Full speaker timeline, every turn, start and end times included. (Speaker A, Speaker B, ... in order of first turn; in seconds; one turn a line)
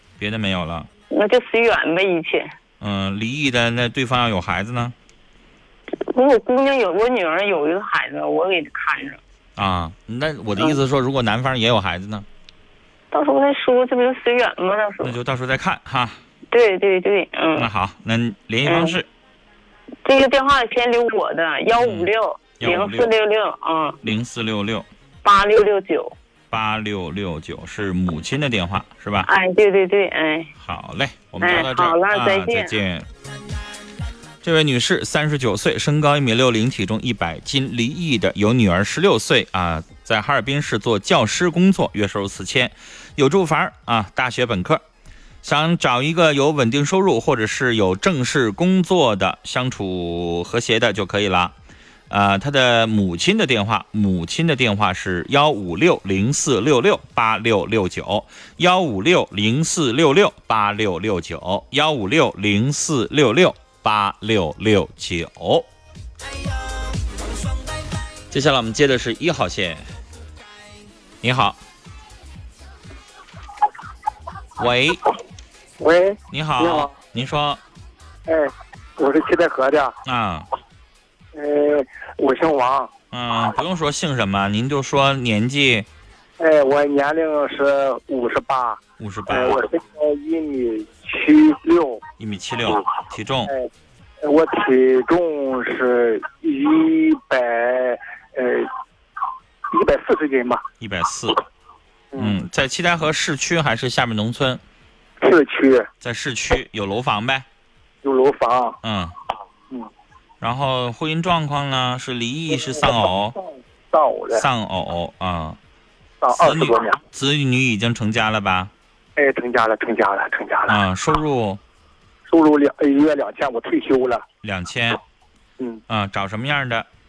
Speaker A: 0.2-0.9
Speaker B: 1.1-2.5
Speaker A: 2.8-4.9
Speaker B: 6.0-9.2
Speaker A: 9.6-12.2
Speaker B: 13.1-15.1
Speaker A: 15.0-16.2
Speaker B: 16.5-17.7
Speaker A: 17.6-19.1
Speaker B: 18.6-18.9
Speaker B: 20.0-24.0
Speaker A: 21.8-22.1
Speaker A: 22.6-23.1
Speaker A: 24.0-24.9
Speaker B: 25.2-26.1
Speaker A: 26.5-29.3
Speaker B: 29.2-30.5
Speaker A: 30.6-33.0
Speaker B: 31.4-32.7
Speaker A: 34.4-44.8
Speaker A: 45.4-51.5
Speaker A: 52.1-65.7
Speaker A: 68.3-69.8
Speaker A: 71.2-71.6
Speaker A: 74.6-75.0
Speaker C: 75.8-77.0
Speaker A: 76.3-77.6
Speaker C: 78.3-79.9
Speaker A: 80.0-80.5
Speaker C: 81.3-82.9
Speaker A: 83.1-85.9
Speaker C: 86.4-92.0
Speaker A: 89.0-89.6
Speaker A: 92.2-93.5
Speaker C: 94.2-98.7
Speaker C: 99.7-100.6
Speaker A: 100.8-101.4
Speaker C: 102.1-102.4
Speaker A: 102.2-104.6
Speaker C: 105.2-105.9
Speaker A: 106.0-107.4
Speaker C: 108.0-108.8
Speaker A: 108.8-109.1
Speaker A: 110.4-113.3
Speaker C: 112.6-113.0
Speaker C: 113.9-114.4
Speaker A: 114.3-115.6
Speaker C: 116.2-117.0
Speaker A: 116.4-118.7
Speaker C: 119.2-120.8
Speaker A: 120.7-121.6
Speaker C: 122.3-124.2
Speaker A: 124.4-125.0
Speaker A: 125.9-126.8